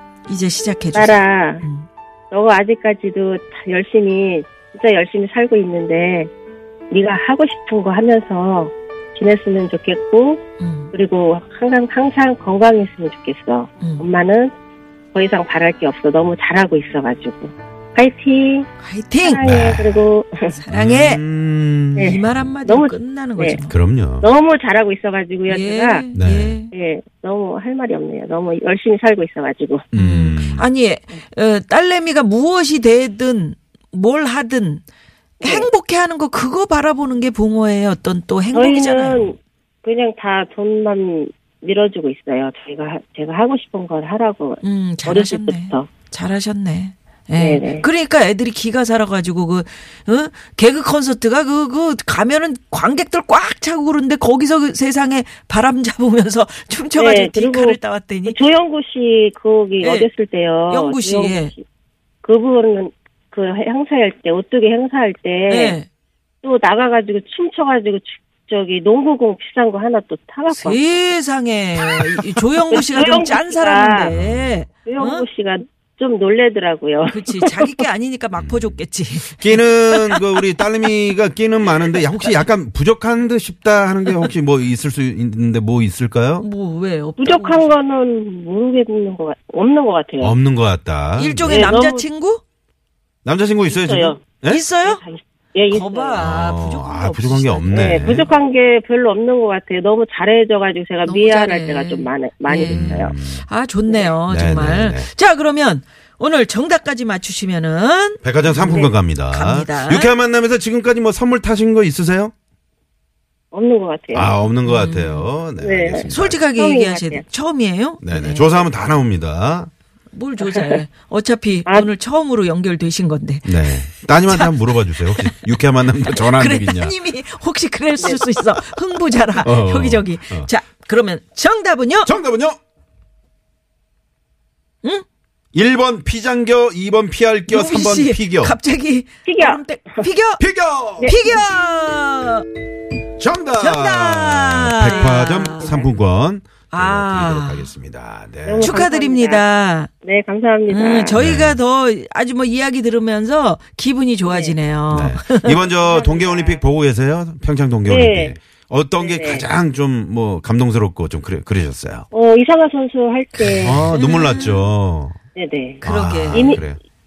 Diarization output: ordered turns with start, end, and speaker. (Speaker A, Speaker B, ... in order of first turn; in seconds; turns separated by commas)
Speaker A: 0.3-1.9, Speaker B: 0.9-1.6, Speaker B: 2.3-6.3, Speaker B: 6.9-14.5, Speaker A: 10.6-10.9, Speaker A: 13.8-14.1, Speaker B: 15.1-18.7, Speaker A: 18.8-19.4, Speaker B: 19.2-20.6, Speaker C: 19.4-20.0, Speaker A: 20.5-21.2, Speaker C: 20.7-22.2, Speaker B: 22.0-23.6, Speaker A: 22.0-23.8, Speaker C: 23.7-24.3, Speaker B: 24.2-26.1, Speaker A: 25.5-26.7, Speaker C: 26.1-26.6, Speaker B: 26.7-29.9, Speaker C: 29.9-30.7, Speaker A: 29.9-34.8, Speaker B: 35.4-35.7, Speaker A: 35.4-39.3, Speaker B: 38.5-45.9, Speaker A: 44.6-58.4, Speaker B: 47.4-47.9, Speaker B: 57.0-61.6, Speaker A: 59.8-60.1, Speaker A: 60.7-61.5, Speaker B: 62.2-65.8, Speaker A: 65.5-65.9, Speaker B: 66.4-70.8, Speaker A: 70.5-75.2, Speaker B: 71.8-72.2, Speaker B: 72.7-74.1, Speaker C: 74.1-74.6, Speaker B: 74.8-77.8, Speaker A: 77.1-80.2, Speaker C: 78.4-86.5, Speaker A: 86.4-87.7, Speaker B: 87.2-90.3, Speaker C: 90.2-91.7, Speaker A: 91.2-92.4, Speaker B: 91.5-92.1, Speaker C: 93.2-94.6, Speaker B: 93.7-94.2, Speaker A: 94.5-95.0, Speaker B: 94.8-96.2, Speaker A: 95.7-98.2, Speaker C: 96.2-98.3, Speaker B: 97.7-103.1, Speaker A: 101.0-110.1, Speaker C: 102.7-103.5, Speaker C: 104.3-105.1, Speaker C: 108.2-112.3, Speaker B: 108.7-108.9, Speaker B: 113.5-114.3, Speaker C: 114.1-116.4, Speaker A: 114.6-115.3, Speaker B: 115.6-117.2, Speaker A: 116.1-118.5, Speaker C: 118.0-119.7, Speaker A: 120.1-125.5, Speaker B: 120.5-120.7, Speaker C: 123.5-127.0, Speaker A: 126.1-132.1, Speaker B: 128.0-128.3, Speaker C: 129.4-130.5, Speaker C: 132.1-132.6, Speaker C: 135.5-138.6, Speaker A: 137.5-140.4, Speaker B: 139.3-139.6, Speaker C: 140.4-141.1, Speaker B: 141.0-141.3, Speaker A: 141.0-142.5, Speaker C: 143.2-148.8, Speaker A: 143.6-145.8, Speaker A: 146.7-147.7, Speaker B: 148.4-149.4, Speaker A: 148.6-149.9, Speaker B: 150.0-151.2, Speaker A: 150.7-155.6, Speaker C: 151.2-151.6, Speaker B: 154.3-154.6, Speaker C: 154.9-162.1, Speaker B: 155.6-156.6, Speaker B: 157.9-158.4, Speaker B: 159.0-159.5, Speaker B: 162.1-163.9, Speaker A: 163.4-164.7, Speaker C: 163.6-165.2, Speaker B: 165.4-166.6, Speaker A: 165.8-166.6, Speaker C: 165.8-166.8